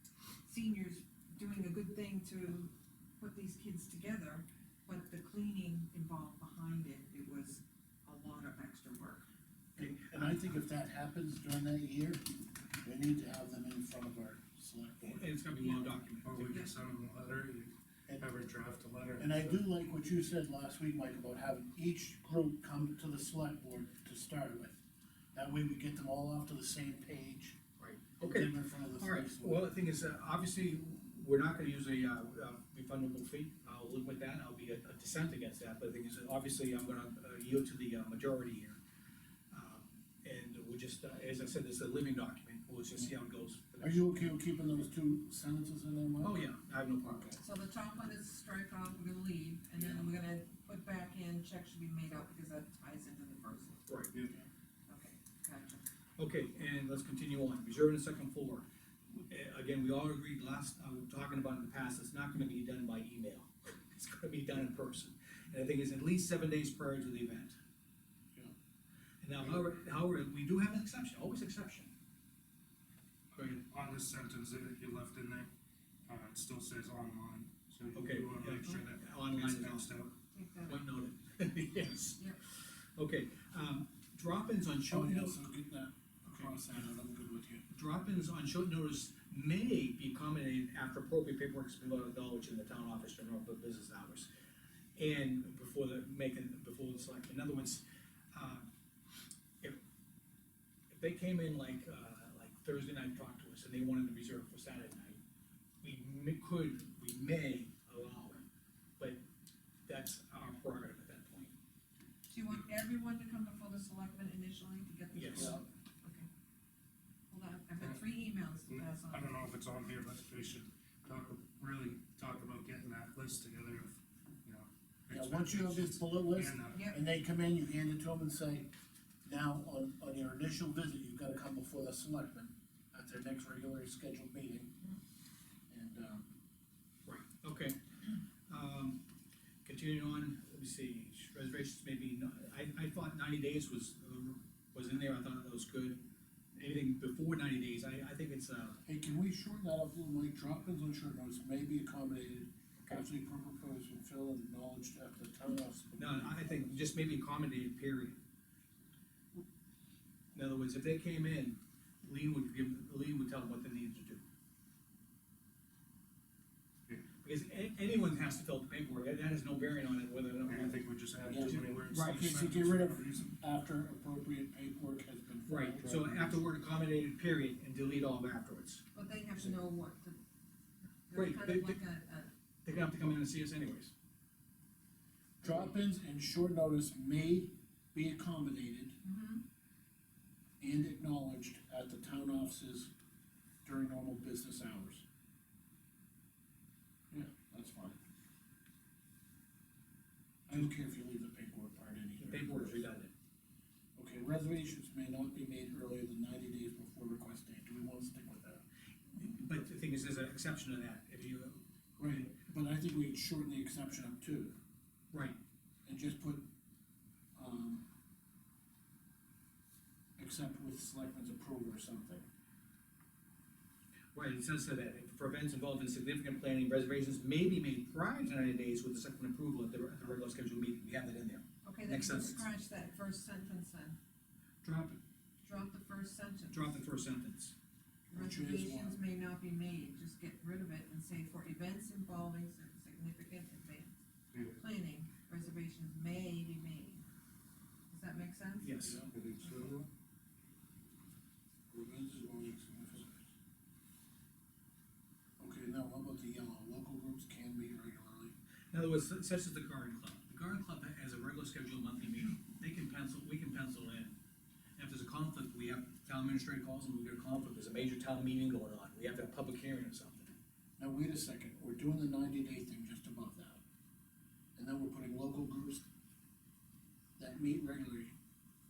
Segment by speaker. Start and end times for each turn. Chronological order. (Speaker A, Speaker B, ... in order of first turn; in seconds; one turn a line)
Speaker A: 0.4-9.3
Speaker B: 9.8-10.4
Speaker C: 9.8-12.2
Speaker C: 12.8-15.3
Speaker B: 15.0-16.6
Speaker D: 16.2-19.6
Speaker C: 19.2-24.8
Speaker C: 25.3-27.6
Speaker B: 27.8-38.8
Speaker C: 28.2-29.7
Speaker B: 39.5-44.3
Speaker C: 43.8-46.5
Speaker B: 46.2-47.4
Speaker C: 47.1-47.3
Speaker A: 47.4-53.8
Speaker C: 49.8-50.1
Speaker B: 53.9-54.1
Speaker A: 54.9-55.8
Speaker B: 56.2-67.6
Speaker B: 69.2-71.9
Speaker B: 73.4-73.6
Speaker D: 73.5-75.5
Speaker D: 76.1-80.1
Speaker B: 77.9-80.0
Speaker A: 80.3-80.8
Speaker B: 80.7-85.4
Speaker C: 84.9-87.7
Speaker B: 87.7-94.3
Speaker B: 95.0-98.7
Speaker B: 100.9-105.2
Speaker B: 105.8-108.4
Speaker B: 109.9-111.5
Speaker A: 112.3-116.3
Speaker B: 115.1-115.6
Speaker A: 117.3-119.3
Speaker D: 118.7-126.8
Speaker C: 125.1-128.7
Speaker A: 126.7-127.0
Speaker C: 129.2-134.8
Speaker C: 135.7-136.3
Speaker B: 137.1-139.0
Speaker B: 139.7-146.0
Speaker B: 146.6-148.8
Speaker C: 148.9-156.8
Speaker B: 156.0-158.2
Speaker B: 160.3-164.2
Speaker B: 167.2-170.8
Speaker D: 170.5-173.3
Speaker C: 171.2-176.4
Speaker B: 171.4-172.5
Speaker B: 175.5-178.8
Speaker A: 178.9-180.2
Speaker A: 181.1-182.3
Speaker B: 181.1-181.8
Speaker B: 182.7-183.9
Speaker C: 185.4-189.0
Speaker A: 189.0-189.4
Speaker C: 190.6-192.9
Speaker C: 193.7-195.1
Speaker C: 197.1-198.0
Speaker C: 200.5-202.9
Speaker B: 202.2-203.1
Speaker C: 204.0-208.6
Speaker B: 209.2-212.2
Speaker C: 212.0-214.6
Speaker B: 215.1-215.4
Speaker C: 215.9-216.5
Speaker C: 217.4-217.8
Speaker C: 220.2-222.2
Speaker B: 224.1-232.5
Speaker A: 231.6-234.0
Speaker B: 234.6-235.0
Speaker A: 235.4-236.8
Speaker B: 236.5-237.5
Speaker C: 238.1-239.0
Speaker A: 238.1-247.0
Speaker A: 247.9-248.9
Speaker B: 248.6-249.0
Speaker C: 248.8-249.2
Speaker D: 249.1-249.9
Speaker C: 251.7-253.3
Speaker C: 255.4-258.3
Speaker B: 258.7-264.2
Speaker B: 264.8-270.3
Speaker C: 270.8-273.6
Speaker C: 274.6-275.9
Speaker C: 277.2-278.1